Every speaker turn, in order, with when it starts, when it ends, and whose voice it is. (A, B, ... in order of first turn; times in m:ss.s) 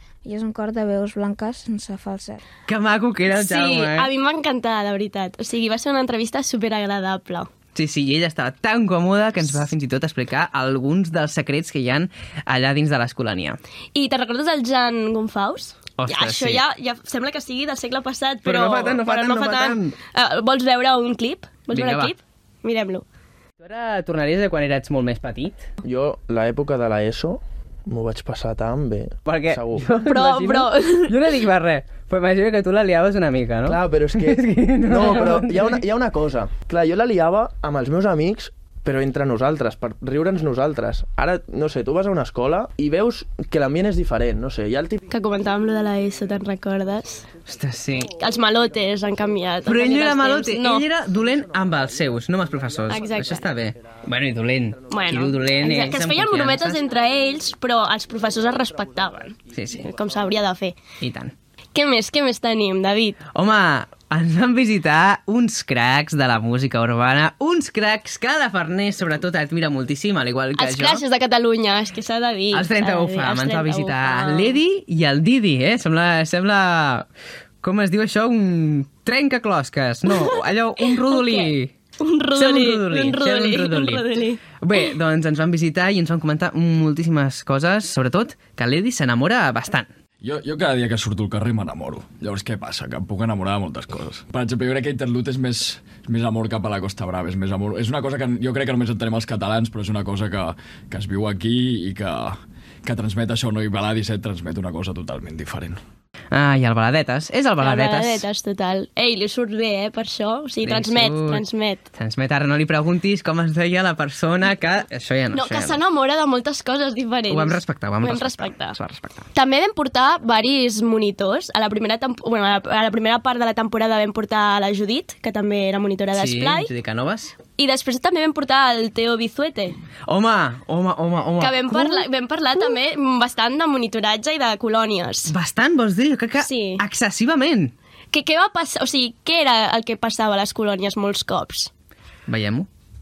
0:00.2-0:02.4 A
0:02.7-0:04.1 B
0:03.3-0:07.5 C
0:07.7-0:13.6 B
0:13.9-0:23.0 C
0:16.0-0:16.6 B
0:18.4-0:19.9 B
0:21.7-0:22.1 B
0:23.6-0:25.6 B
0:25.8-0:29.9 D
0:29.2-0:35.8 B
0:30.0-0:31.1 C
0:33.6-0:46.4 D
0:45.1-0:47.2 C
0:47.2-0:50.4 D
0:47.5-0:48.2 B
0:48.1-0:50.9 C
0:49.6-0:56.9 B
0:51.0-1:00.5 D
0:52.9-0:53.5 C
0:54.9-1:00.8 C
0:59.5-0:59.9 B
1:01.0-1:01.3 B
1:01.7-1:03.2 C
1:03.3-1:11.0 B
1:10.5-1:14.6 C
1:12.5-1:17.1 B
1:17.6-1:21.7 B
1:21.0-1:24.8 C
1:22.3-1:24.0 B
1:24.6-1:29.9 B
1:30.2-1:45.8 E
1:46.3-1:48.3 B
1:47.6-1:51.8 C
1:50.6-1:51.4 B
1:51.9-1:55.8 B
1:55.3-1:58.7 C
1:57.3-1:59.2 B
1:59.3-2:06.7 C
2:06.1-2:07.4 B
2:07.5-2:09.8 C
2:10.1-2:12.1 B
2:11.4-2:15.3 C
2:15.3-2:17.7 B
2:16.4-2:16.8 C
2:18.1-2:21.7 C
2:22.3-2:22.7 B